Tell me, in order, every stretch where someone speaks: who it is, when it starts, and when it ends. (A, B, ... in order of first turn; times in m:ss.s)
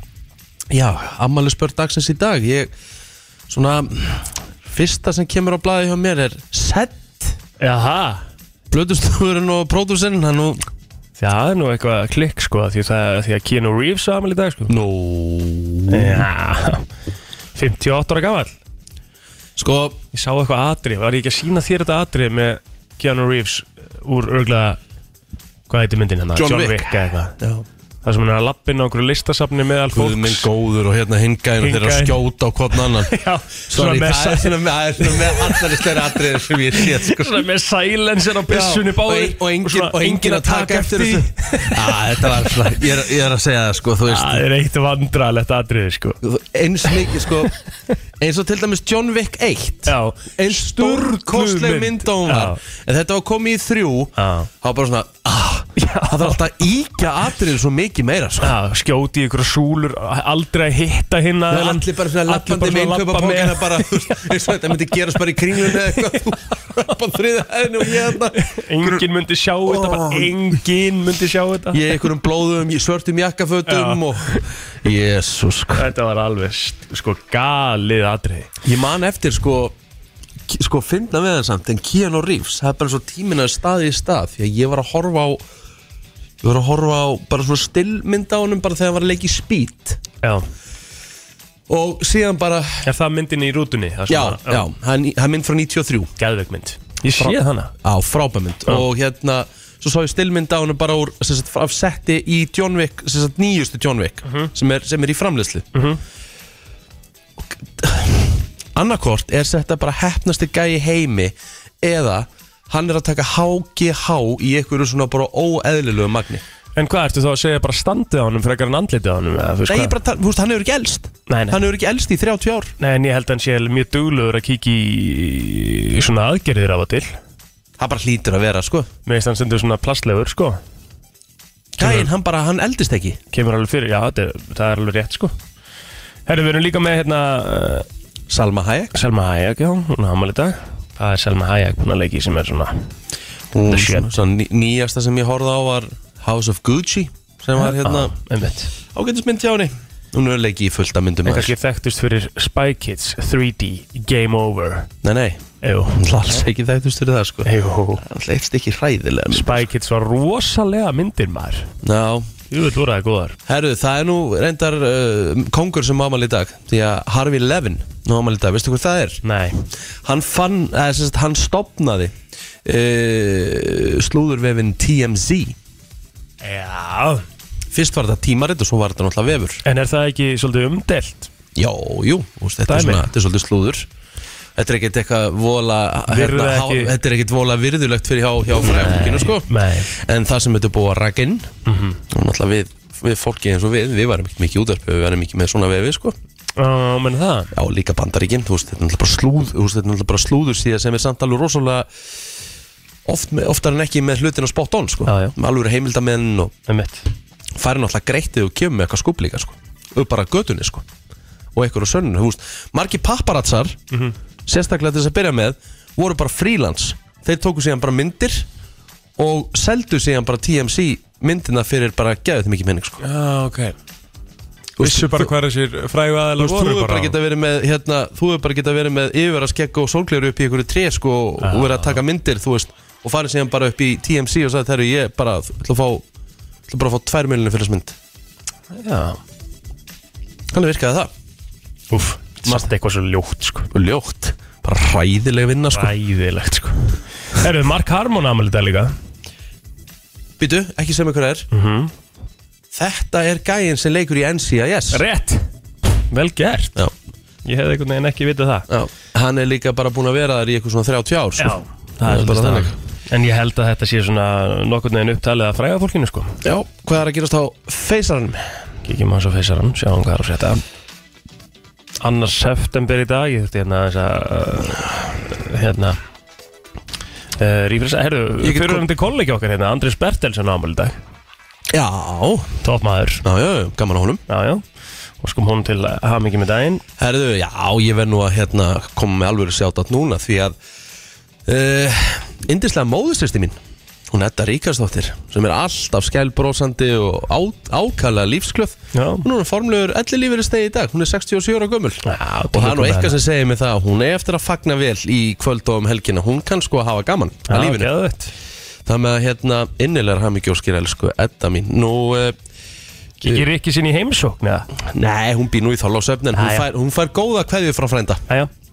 0:00.7-0:02.7 A
0:03.5-0:07.4 A
0:07.6-0:08.2 B
0:08.7-0:10.6 A
0:11.2-0:14.7 B
0:14.7-0:16.2 A
0:15.9-0:16.9 B
0:17.6-0:18.5 B
0:19.6-0:20.0 A
0:20.1-0:24.8 B
0:25.7-0:27.3 B
0:26.3-0:27.6 A
0:28.0-0:30.5 B
0:29.9-0:33.1 A
0:31.6-0:32.2 B
0:32.7-0:42.8 B
0:33.7-0:37.4 A
0:38.5-0:44.4 A
0:44.0-0:46.2 B
0:46.2-0:47.5 A
0:48.2-0:58.5 A
0:49.8-0:52.6 B
0:54.2-0:54.5 B
0:55.8-0:56.4 B
0:58.4-1:04.5 B
1:01.5-1:09.0 A
1:05.7-1:06.0 B
1:08.4-1:12.0 B
1:09.6-1:10.4 A
1:11.7-1:15.8 A
1:13.7-1:14.4 B
1:15.7-1:18.5 B
1:18.6-1:19.7 A
1:20.5-1:25.4 A
1:26.4-1:30.0 A
1:31.7-1:32.9 A
1:32.8-1:34.7 B
1:34.1-1:36.1 A
1:36.2-1:37.7 B
1:37.1-1:45.6 A
1:44.2-1:44.5 B
1:45.7-1:46.0 B
1:47.6-1:56.4 A
1:56.8-2:00.0 B
1:59.7-2:02.7 A
2:01.3-2:01.6 B
2:02.8-2:07.2 B
2:07.8-2:08.9 A
2:09.0-2:10.6 B
2:11.8-2:13.2 A
2:11.8-2:12.1 B
2:13.3-2:15.3 B
2:16.3-2:17.8 B
2:18.3-2:18.9 A
2:18.9-2:22.9 B
2:23.5-2:28.1 A
2:23.7-2:24.1 B
2:27.6-2:28.7 B
2:28.9-2:31.5 A
2:31.2-2:34.9 B
2:35.0-2:39.7 A
2:35.6-2:36.0 B
2:37.4-2:38.0 B
2:39.3-2:41.7 B
2:41.8-2:42.3 A
2:42.5-2:43.4 B
2:43.5-2:49.2 A
2:49.2-2:49.6 B
2:50.0-2:52.1 A
2:52.6-2:55.6 A
2:56.4-2:57.2 B
2:57.7-2:59.6 A
2:59.6-3:01.3 B
3:01.5-3:03.9 A
3:02.7-3:03.1 B
3:04.6-3:11.5 A
3:06.1-3:06.9 B
3:08.6-3:09.9 B
3:11.6-3:12.0 B
3:12.1-3:16.2 A
3:16.6-3:17.5 B
3:17.5-3:21.9 A
3:23.0-3:26.5 A
3:25.1-3:25.3 B
3:26.7-3:27.1 B
3:27.5-3:30.8 A
3:31.5-3:33.8 A
3:34.4-3:38.5 A
3:39.2-3:43.0 A
3:43.0-3:43.7 B
3:44.8-3:45.3 A
3:44.8-3:47.2 B
3:46.4-3:56.0 A
3:51.4-3:52.0 B
3:56.7-3:58.0 A
3:58.7-3:59.2 B
4:00.5-4:01.1 A
4:01.9-4:03.7 B
4:03.7-4:05.9 A
4:05.7-4:08.9 B
4:10.4-4:11.5 A
4:11.5-4:11.9 B
4:12.7-4:15.0 A
4:14.9-4:15.4 B
4:16.1-4:16.8 B
4:17.4-4:18.7 B
4:18.7-4:22.8 A
4:21.4-4:26.4 B
4:26.4-4:28.6 A
4:28.8-4:30.6 B
4:32.0-4:36.0 B
4:37.4-4:41.0 B
4:38.4-4:38.8 A
4:41.7-4:42.5 A
4:42.6-4:43.2 B
4:43.2-4:44.2 A
4:44.3-4:44.6 B
4:45.2-4:46.8 B
4:47.0-4:50.6 A
4:51.4-4:53.6 A
4:54.1-5:07.9 A
4:58.9-4:59.2 B
5:02.0-5:03.2 B
5:07.5-5:08.3 B
5:08.8-5:12.4 A
5:13.2-5:13.5 A
5:13.2-5:14.7 B
5:14.8-5:18.2 A
5:16.3-5:16.7 B